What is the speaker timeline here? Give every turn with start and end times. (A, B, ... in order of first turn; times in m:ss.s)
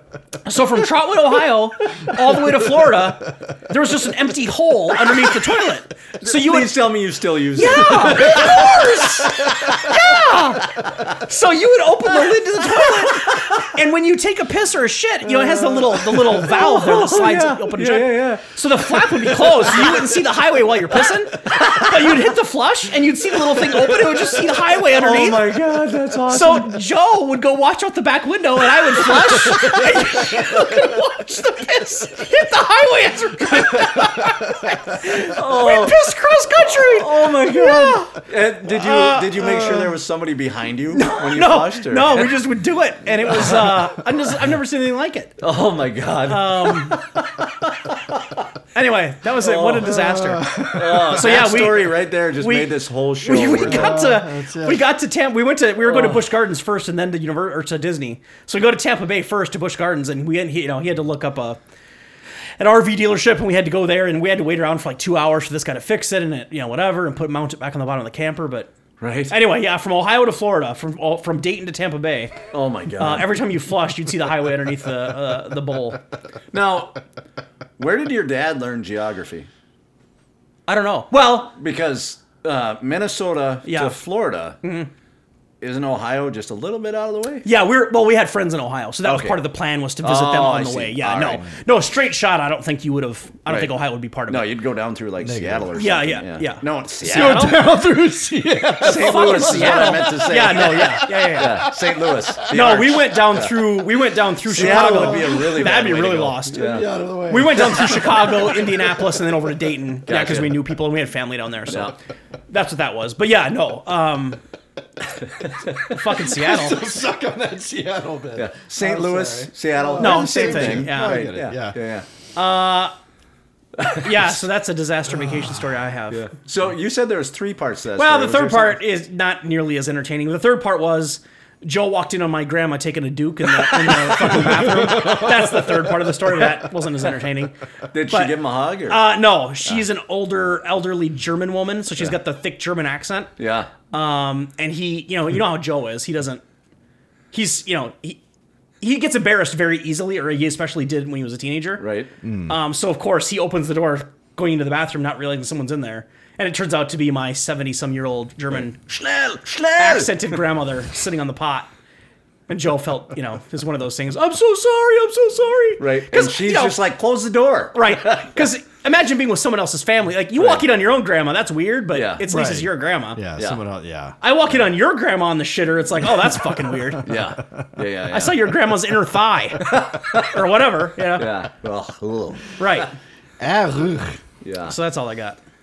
0:00.4-0:06.9 A
0:02.4-0:02.6 B
0:06.2-0:10.1 B
0:07.5-0:25.5 A
0:13.1-0:13.7 B
0:15.2-0:20.2 B
0:21.5-0:22.2 B
0:23.5-0:26.8 B
0:26.3-0:39.9 A
0:28.8-0:30.5 B
0:33.8-0:34.2 B
0:35.0-0:42.4 B
0:40.9-0:45.4 A
0:43.4-0:43.8 B
0:45.4-0:48.4 B
0:46.2-0:47.0 A
0:48.7-1:01.6 A
0:49.4-0:54.0 B
0:49.9-0:51.2 C
0:53.6-0:54.8 C
0:55.8-0:56.3 B
1:02.6-1:08.7 A
1:09.0-1:09.4 B
1:09.3-1:12.4 A
1:12.5-1:13.4 B
1:13.0-1:16.0 A
1:16.5-1:17.0 B
1:17.8-1:19.5 B
1:20.7-1:21.5 A
1:21.6-1:24.6 B
1:23.6-1:24.0 A
1:24.6-1:24.9 A
1:25.6-1:27.5 B
1:27.4-1:34.5 A
1:29.0-1:29.4 B
1:30.0-1:31.5 B
1:33.5-1:33.7 B
1:34.3-1:37.6 B
1:35.2-1:35.7 C
1:35.8-1:37.7 A
1:37.1-1:42.3 C
1:38.8-1:43.7 B
1:38.8-1:41.7 A
1:42.4-1:52.0 A
1:44.4-1:46.9 B
1:44.6-1:45.5 C
1:46.6-1:48.2 C
1:47.6-1:48.2 B
1:50.1-1:50.6 B
1:51.7-1:52.0 B
1:52.5-1:54.4 A
1:55.5-1:55.9 B
1:55.8-1:56.8 A
1:56.2-2:01.8 C
1:58.4-2:02.1 B
2:00.0-2:01.3 A
2:02.4-2:02.9 A
2:03.8-2:04.4 B
2:04.0-2:06.3 A
2:06.1-2:08.8 B
2:08.0-2:17.5 A
2:13.7-2:15.3 B
2:17.9-2:19.0 B
2:18.1-2:18.4 A
2:18.9-2:23.3 A
2:23.4-2:23.7 B
2:23.9-2:26.4 A
2:27.3-2:28.2 A
2:28.8-2:31.8 A
2:31.8-2:32.1 B
2:32.2-2:32.6 C
2:32.5-2:38.8 A
2:38.5-2:40.4 B
2:39.8-2:41.7 A
2:42.5-2:46.8 A
2:45.8-2:48.4 B
2:47.7-2:53.2 A
2:50.4-2:50.6 B
2:51.9-2:52.2 B
2:52.3-2:54.2 C
2:54.2-2:57.1 A
2:57.0-2:58.5 B
2:58.1-3:01.3 A
2:59.6-3:00.5 B
3:01.2-3:02.9 B
3:02.6-3:02.9 A
3:03.4-3:04.2 C
3:04.4-3:04.8 B
3:04.7-3:05.4 A